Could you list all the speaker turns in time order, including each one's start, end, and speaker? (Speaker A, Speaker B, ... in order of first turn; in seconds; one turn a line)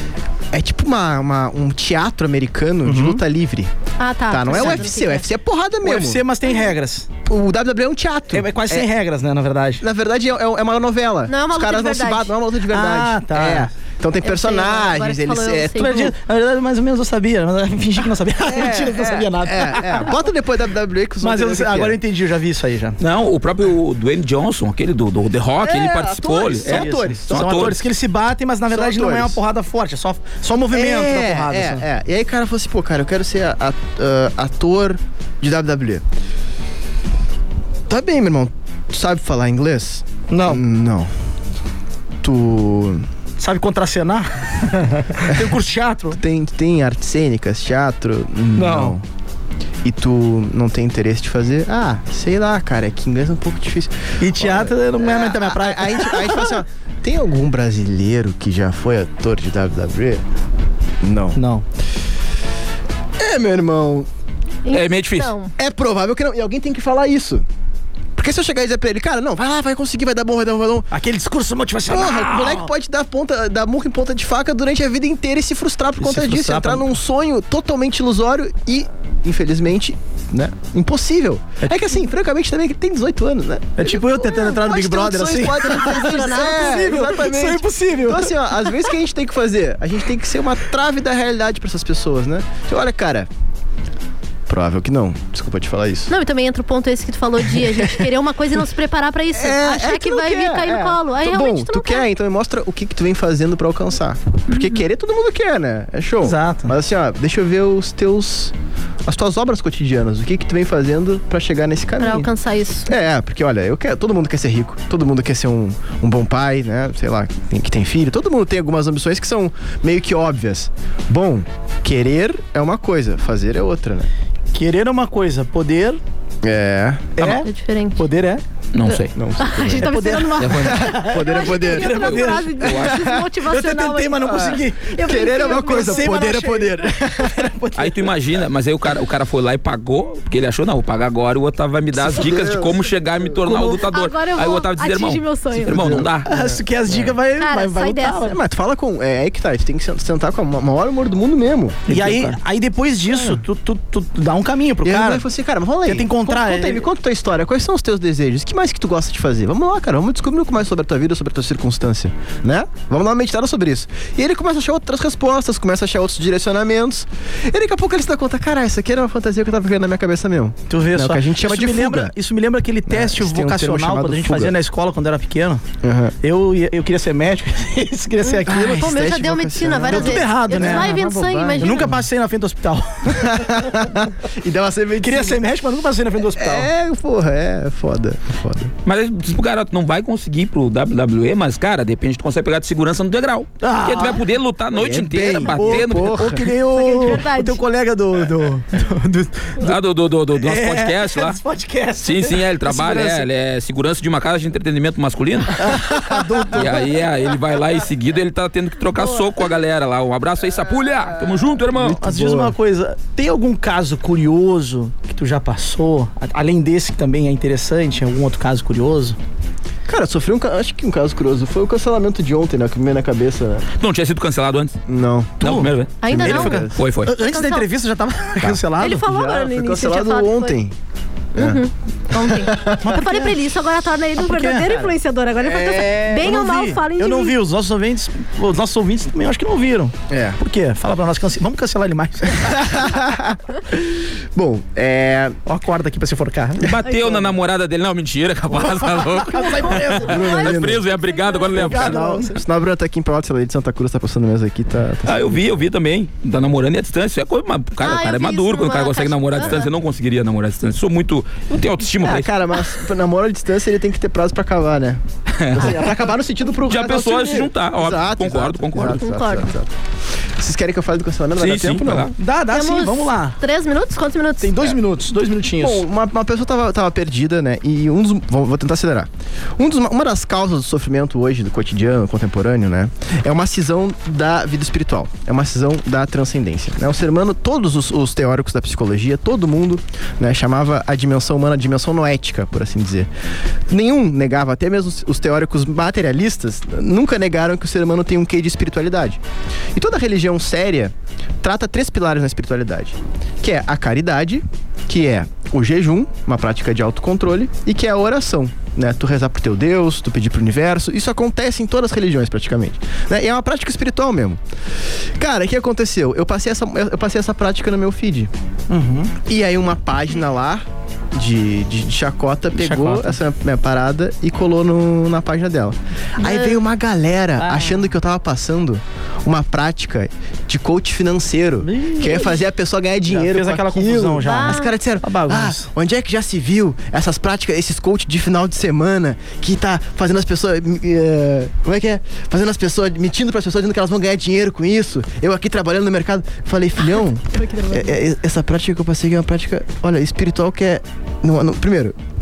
Speaker A: 0.5-3.7
Speaker B: 2.8-3.2
Speaker C: 4.0-5.3
Speaker A: 4.3-6.2
Speaker B: 4.5-4.9
Speaker B: 5.8-7.1
Speaker A: 7.2-8.9
Speaker B: 8.3-9.8
Speaker A: 9.8-15.9
Speaker C: 11.3-12.3
Speaker B: 12.7-13.7
Speaker C: 14.2-16.2
Speaker B: 15.7-20.2
Speaker A: 18.5-22.0
Speaker B: 21.2-23.0
Speaker D: 23.0-27.8
Speaker A: 25.6-27.7
Speaker B: 26.6-31.9
Speaker A: 28.7-29.4
Speaker A: 30.7-36.0
Speaker A: 37.9-41.1
Speaker B: 40.3-40.6
Speaker A: 42.2-43.1
Speaker B: 43.4-46.2
Speaker A: 46.1-49.0
Speaker B: 48.6-49.0
Speaker A: 49.8-60.2
Speaker B: 54.2-56.6
Speaker A: 61.0-61.4
Speaker B: 61.4-61.6
Speaker A: 63.2-64.1
Speaker C: 64.7-65.5
Speaker D: 64.7-65.3
Speaker A: 65.6-67.5
Speaker A: 68.2-70.9
Speaker B: 70.9-72.7
Speaker A: 71.9-93.3
Speaker B: 76.0-76.9
Speaker B: 81.6-82.0
Speaker B: 83.8-88.3
Speaker C: 85.6-86.9
Speaker A: 94.5-96.1
Speaker C: 96.1-102.1
Speaker A: 99.3-108.5
Speaker C: 104.5-104.8
Speaker B: 106.2-106.7
Speaker A: 109.0-112.3
Speaker C: 112.0-112.9
Speaker A: 112.9-124.1
Speaker B: 124.5-126.0
Speaker A: 126.4-127.4
Speaker B: 127.2-128.4
Speaker C: 127.5-128.0
Speaker D: 128.7-129.1
Speaker C: 128.9-136.3
Speaker A: 129.2-130.0
Speaker B: 129.8-132.8
Speaker D: 130.4-130.9
Speaker A: 130.6-133.2
Speaker D: 132.6-133.0
Speaker B: 133.4-138.2
Speaker A: 134.3-137.5
Speaker D: 137.8-146.3
Speaker A: 141.9-142.8
Speaker C: 143.5-145.8
Speaker A: 145.7-147.1
Speaker B: 146.2-148.4
Speaker C: 147.4-148.3
Speaker A: 148.2-152.3
Speaker B: 151.9-155.3
Speaker A: 154.8-172.1
Speaker B: 155.8-156.9
Speaker B: 170.7-175.6
Speaker A: 172.9-174.6
Speaker A: 175.8-176.1
Speaker B: 176.2-178.8
Speaker C: 178.2-181.9
Speaker A: 178.5-181.9
Speaker B: 179.9-183.9
Speaker A: 183.1-185.4
Speaker B: 185.0-186.7
Speaker A: 186.4-188.7
Speaker D: 188.8-196.4
Speaker B: 193.6-194.3
Speaker A: 194.7-196.4
Speaker B: 195.4-199.8
Speaker C: 196.7-197.6
Speaker D: 199.6-201.4
Speaker B: 200.3-203.3
Speaker D: 202.0-205.9
Speaker B: 205.6-206.9
Speaker D: 206.5-212.0
Speaker A: 211.3-212.6
Speaker B: 211.8-219.2
Speaker A: 219.9-223.7
Speaker D: 223.8-224.8
Speaker A: 224.9-226.8
Speaker D: 225.4-226.0
Speaker B: 225.4-229.1
Speaker C: 226.0-227.7
Speaker D: 226.8-227.2
Speaker A: 228.4-230.7
Speaker C: 228.8-230.6
Speaker A: 231.3-231.6
Speaker C: 231.4-237.4
Speaker A: 232.1-232.9
Speaker B: 232.8-233.3
Speaker B: 234.2-234.9
Speaker A: 235.4-236.3
Speaker B: 236.1-242.9
Speaker A: 240.1-240.4
Speaker A: 242.4-245.4
Speaker B: 245.4-246.7
Speaker D: 246.6-252.0
Speaker C: 246.9-247.2
Speaker B: 248.5-250.5
Speaker C: 249.4-251.5
Speaker A: 250.1-250.9
Speaker B: 251.5-252.4
Speaker A: 251.6-255.4
Speaker D: 255.1-262.3
Speaker C: 257.8-259.7
Speaker A: 262.0-269.7
Speaker D: 265.4-265.9
Speaker B: 265.6-266.1
Speaker D: 266.7-269.1
Speaker B: 267.0-267.5
Speaker C: 269.0-269.5
Speaker A: 270.4-272.1
Speaker D: 271.4-272.1
Speaker B: 272.2-273.4
Speaker C: 272.5-274.7
Speaker B: 274.4-275.8
Speaker A: 275.6-293.1
Speaker A: 293.7-299.2
Speaker A: 299.8-314.4
Speaker A: 315.2-318.3
Speaker B: 318.7-319.1
Speaker A: 319.2-351.9
Speaker B: 322.6-323.2
Speaker C: 326.2-326.6
Speaker B: 327.4-327.9
Speaker B: 331.6-332.4
Speaker B: 333.1-335.7
Speaker C: 334.2-334.7
Speaker C: 347.3-348.0